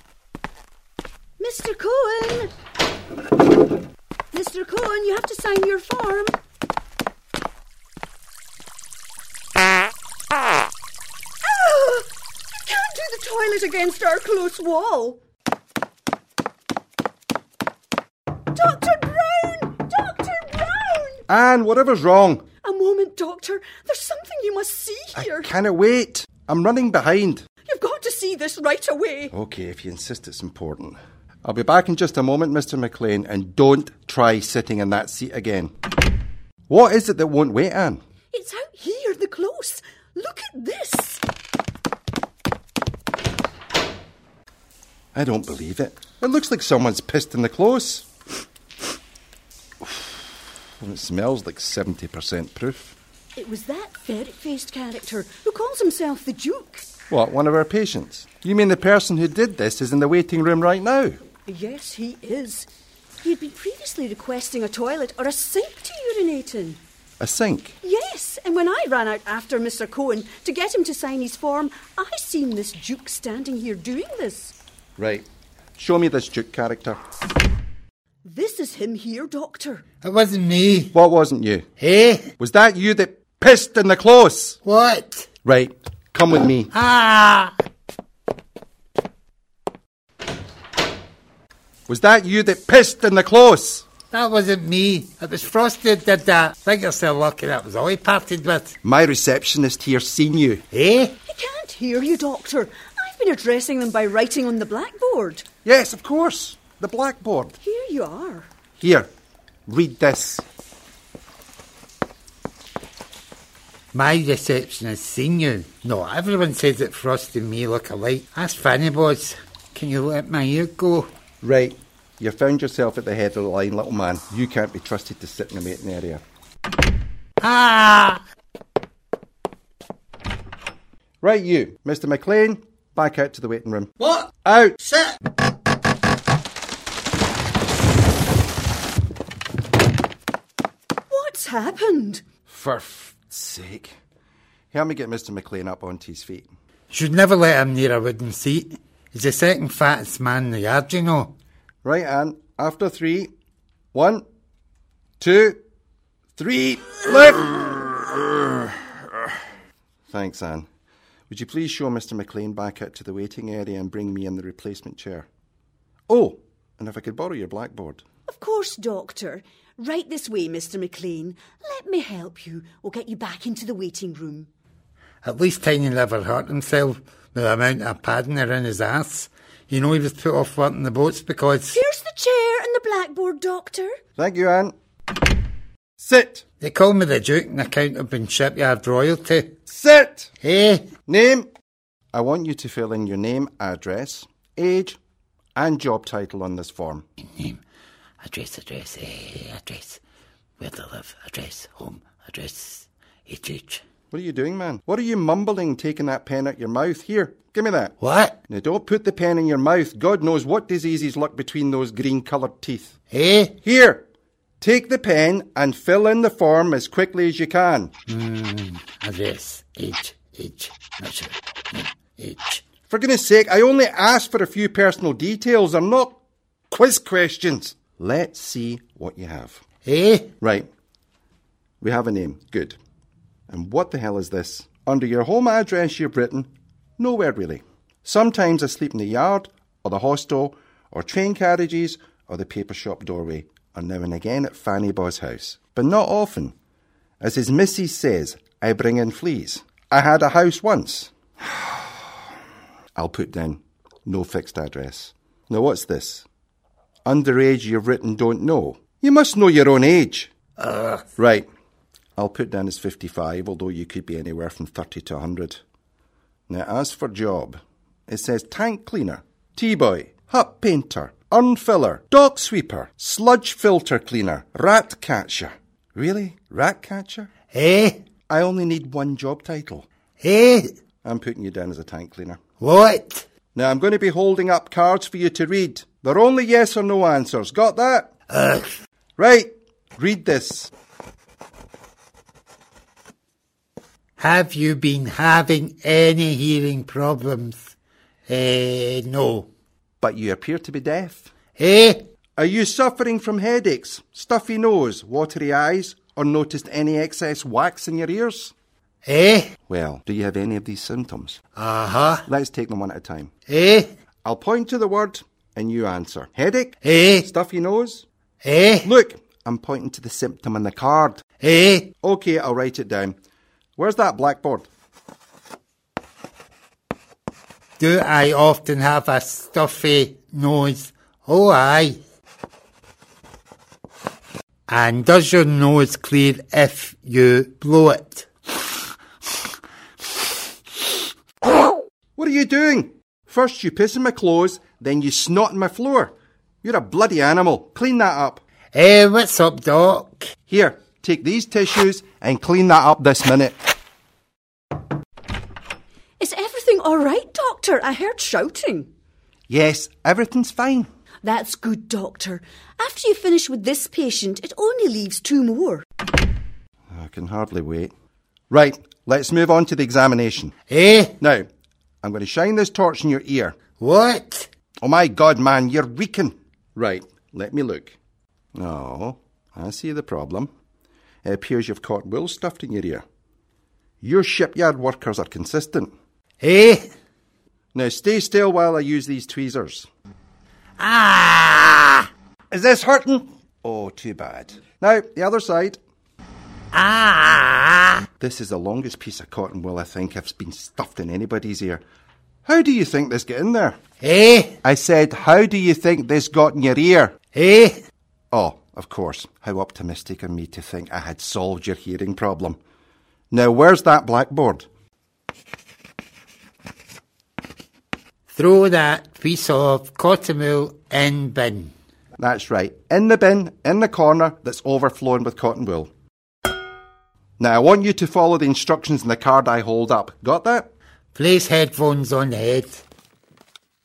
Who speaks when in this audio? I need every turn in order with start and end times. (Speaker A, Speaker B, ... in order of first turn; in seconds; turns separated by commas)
Speaker A: 1.4-2.5, Speaker A: 4.3-6.3, Speaker A: 11.4-12.1, Speaker A: 12.7-15.2, Speaker A: 18.5-21.2, Speaker B: 21.3-22.4, Speaker A: 22.6-25.5, Speaker B: 25.1-27.4, Speaker A: 27.6-29.3, Speaker B: 29.3-35.7, Speaker B: 36.7-38.0, Speaker A: 38.3-41.2, Speaker B: 45.1-48.1, Speaker B: 49.8-50.1, Speaker B: 50.8-52.9, Speaker A: 53.4-56.9, Speaker B: 57.1-61.2, Speaker A: 61.5-62.7, Speaker A: 63.2-66.8, Speaker B: 67.2-67.8, Speaker A: 67.8-74.5, Speaker B: 75.0-77.0, Speaker A: 78.2-79.8, Speaker C: 80.0-80.9, Speaker B: 80.9-81.7, Speaker C: 81.8-82.3, Speaker B: 82.4-84.6, Speaker C: 84.6-85.3, Speaker B: 85.4-86.7, Speaker C: 86.7-87.5, Speaker B: 91.9-93.8, Speaker C: 94.1-98.8, Speaker B: 98.8-100.6, Speaker C: 100.7-101.2, Speaker A: 101.2-105.4, Speaker B: 105.6-107.6, Speaker A: 107.6-108.5, Speaker B: 108.8-109.1, Speaker B: 109.7-110.4, Speaker C: 113.9-121.1, Speaker B: 121.4-126.2, Speaker C: 127.4-128.2, Speaker B: 131.2-135.0, Speaker A: 141.1-142.2, Speaker B: 142.5-143.9, Speaker B: 144.7-146.5, Speaker C: 146.9-151.3, Speaker B: 151.8-153.3, Speaker B: 153.9-154.2, Speaker B: 155.2-155.6, Speaker B: 156.4-158.7, Speaker B: 160.1-160.7, Speaker B: 161.3-165.3, Speaker B: 166.1-168.0, Speaker A: 168.3-174.5, Speaker C: 175.2-181.8, Speaker A: 181.7-183.9, Speaker B: 184.2-184.7, Speaker B: 186.0-186.4, Speaker C: 186.6-189.6, Speaker B: 189.7-190.3, Speaker C: 190.4-190.8, Speaker B: 191.1-191.5, Speaker B: 192.1-195.0, Speaker B: 195.6-197.0, Speaker C: 197.2-197.6, Speaker C: 198.2-200.0, Speaker C: 200.6-203.8, Speaker B: 204.1-207.9, Speaker C: 208.0-208.4, Speaker B: 208.5-212.9, Speaker C: 213.1-213.6, Speaker B: 213.6-214.1, Speaker B: 214.6-217.9, Speaker C: 218.1-222.6, Speaker B: 222.9-226.2, Speaker B: 226.7-229.6, Speaker C: 229.8-230.3, Speaker B: 230.4-230.7, Speaker B: 231.8-232.8, Speaker B: 233.5-246.5, Speaker B: 247.2-251.1, Speaker B: 252.9-256.2, Speaker B: 257.1-260.3, Speaker C: 260.6-261.0, Speaker B: 261.1-261.4, Speaker B: 262.2-265.6, Speaker B: 266.5-277.3, Speaker C: 277.5-278.0, Speaker B: 278.3-279.9, Speaker C: 280.2-280.7, Speaker B: 281.0-282.4, Speaker C: 282.6-283.2, Speaker B: 283.5-288.1, Speaker C: 288.3-288.7, Speaker B: 289.2-290.7, Speaker C: 294.2-297.7, Speaker C: 298.3-299.5, Speaker B: 300.0-301.3, Speaker C: 301.6-302.0, Speaker B: 302.4-308.5, Speaker C: 309.0-309.5, Speaker B: 309.7-311.4, Speaker C: 311.6-312.2, Speaker B: 312.2-313.3, Speaker C: 313.5-313.9, Speaker B: 314.2-318.1, Speaker C: 316.8-317.3, Speaker C: 318.4-318.9, Speaker B: 318.8-321.2, Speaker C: 321.4-321.9, Speaker B: 322.0-323.1, Speaker B: 323.8-324.7, Speaker C: 327.8-332.0, Speaker C: 334.7-338.7, Speaker B: 342.2-348.4, Speaker C: 348.7-350.3, Speaker B: 350.5-353.6, Speaker A: 356.2-358.9, Speaker B: 359.5-360.9, Speaker A: 361.2-365.8, Speaker B: 366.9-367.9, Speaker B: 368.5-370.5, Speaker C: 370.7-371.1, Speaker B: 371.2-371.5, Speaker B: 372.0-373.6, Speaker C: 373.8-374.5, Speaker B: 374.8-377.9, Speaker B: 378.5-380.5, Speaker B: 381.2-383.0, Speaker B: 384.0-385.9, Speaker C: 386.4-386.9, Speaker B: 387.7-389.9, Speaker C: 390.8-392.1, Speaker B: 392.5-395.8, Speaker C: 396.7-398.1, Speaker B: 398.2-401.8, Speaker B: 402.4-403.8, Speaker C: 404.0-404.6, Speaker B: 404.6-407.1, Speaker C: 407.3-407.8, Speaker B: 408.3-412.6, Speaker B: 413.3-414.6, Speaker C: 418.3-421.7, Speaker B: 422.2-425.9, Speaker B: 427.4-430.7, Speaker C: 431.1-432.8